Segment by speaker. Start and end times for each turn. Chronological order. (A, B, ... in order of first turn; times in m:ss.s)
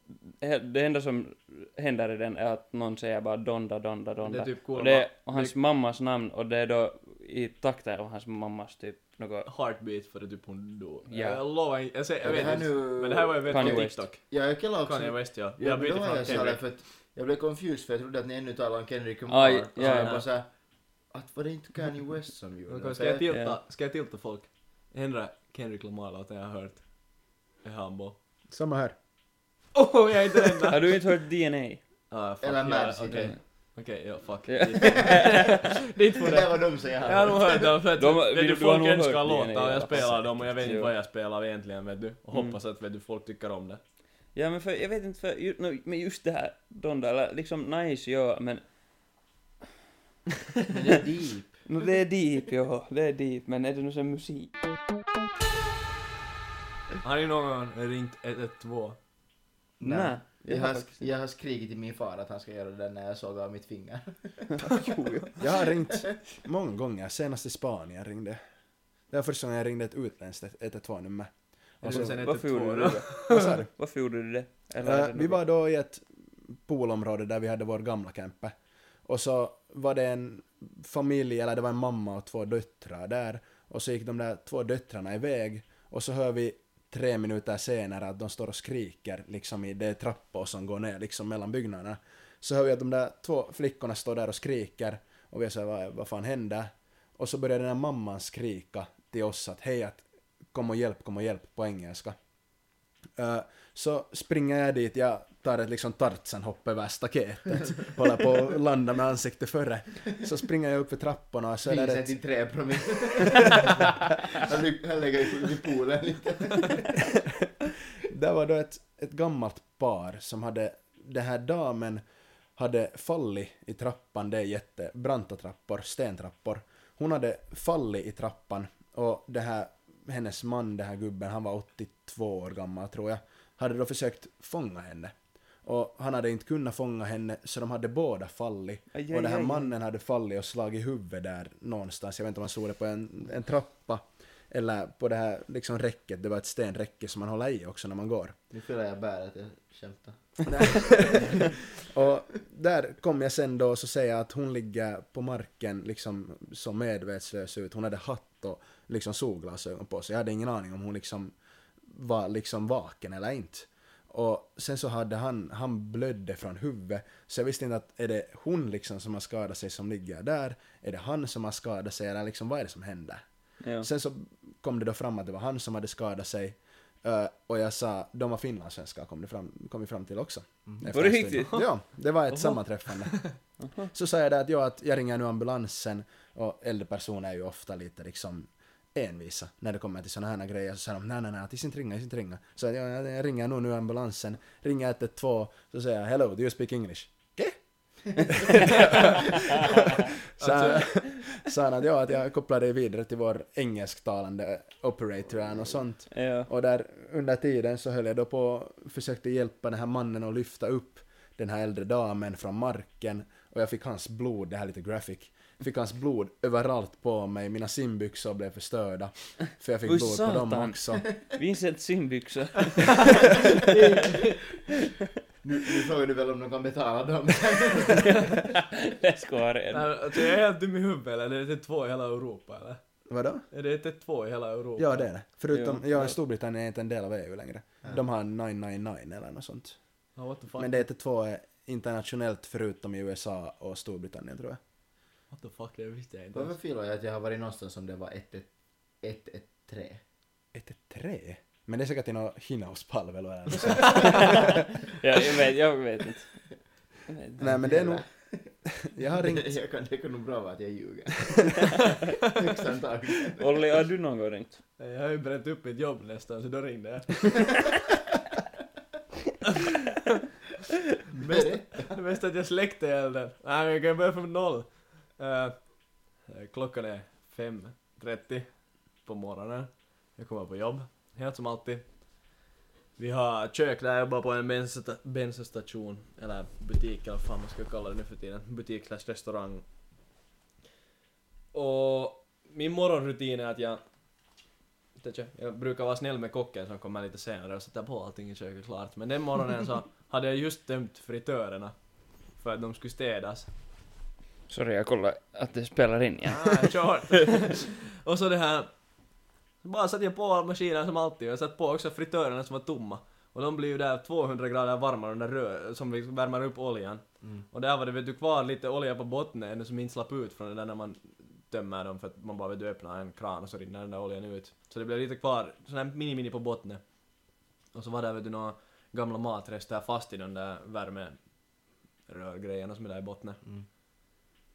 0:00.4-0:09.5 A
0:04.2-0:05.6 B
0:09.4-0:16.7 B
0:11.1-0:11.4 A
0:12.2-0:20.5 C
0:13.5-0:14.1 A
0:19.3-0:20.2 A
0:20.0-0:20.2 B
0:21.1-0:23.3 C
0:22.7-0:28.2 B
0:23.3-0:23.6 A
0:28.5-0:29.0 D
0:29.7-0:31.0 B
0:30.7-0:31.8 A
0:32.1-0:43.8 B
0:32.4-0:33.4 C
0:34.5-0:35.6 A
0:34.8-0:35.3 C
0:36.2-0:37.8 C
0:38.0-0:40.9 A
0:42.3-0:42.6 A
0:44.3-0:48.6 A
0:50.7-0:51.6 C
0:51.7-0:54.5 A
0:57.0-0:59.0 B
0:59.8-1:04.7 C
0:59.8-1:01.1 A
1:04.6-1:05.4 A
1:05.4-1:08.4 D
1:09.1-1:12.3 D
1:11.8-1:13.6 B
1:12.2-1:15.4 A
1:13.3-1:13.7 D
1:14.8-1:18.5 D
1:19.0-1:42.1 D
1:43.2-1:52.2 D
1:51.7-1:57.0 C
1:58.0-2:02.0 D
2:02.6-2:28.4 D
2:18.9-2:19.7 A
2:28.5-2:31.8 C
2:30.5-2:41.3 D
2:41.9-2:53.2 D
2:53.6-2:53.9 A
2:53.8-3:03.3 D
3:00.9-3:01.6 A
3:02.3-3:03.3 B
3:03.6-3:03.9 A
3:03.9-3:41.0 D
3:20.4-3:21.1 B
3:26.1-3:26.5 A
3:39.8-3:43.1 A
3:43.2-3:44.6 B
3:45.4-3:48.4 C
3:48.0-3:50.3 A
3:49.7-3:52.8 B
3:53.1-3:53.4 D
3:53.5-3:55.1 B
3:54.8-3:59.8 D
3:55.5-3:56.1 A
4:00.2-4:00.8 B
4:00.5-4:04.6 D
4:05.3-4:06.6 B
4:06.3-4:10.0 C
4:10.5-4:14.6 D
4:15.0-4:16.4 A
4:17.1-4:17.6 A
4:17.4-4:18.1 D
4:17.4-4:18.5 C
4:18.7-4:19.5 D
4:19.1-4:23.6 C
4:23.4-4:24.6 A
4:24.8-4:27.8 B
4:31.2-4:41.9 B
4:31.2-4:31.9 C
4:43.0-4:49.6 B
4:51.5-4:53.8 B
4:55.0-5:03.5 B
5:04.5-5:06.7 A
5:06.3-5:31.3 B
5:17.2-5:17.5 C
5:32.0-5:33.4 B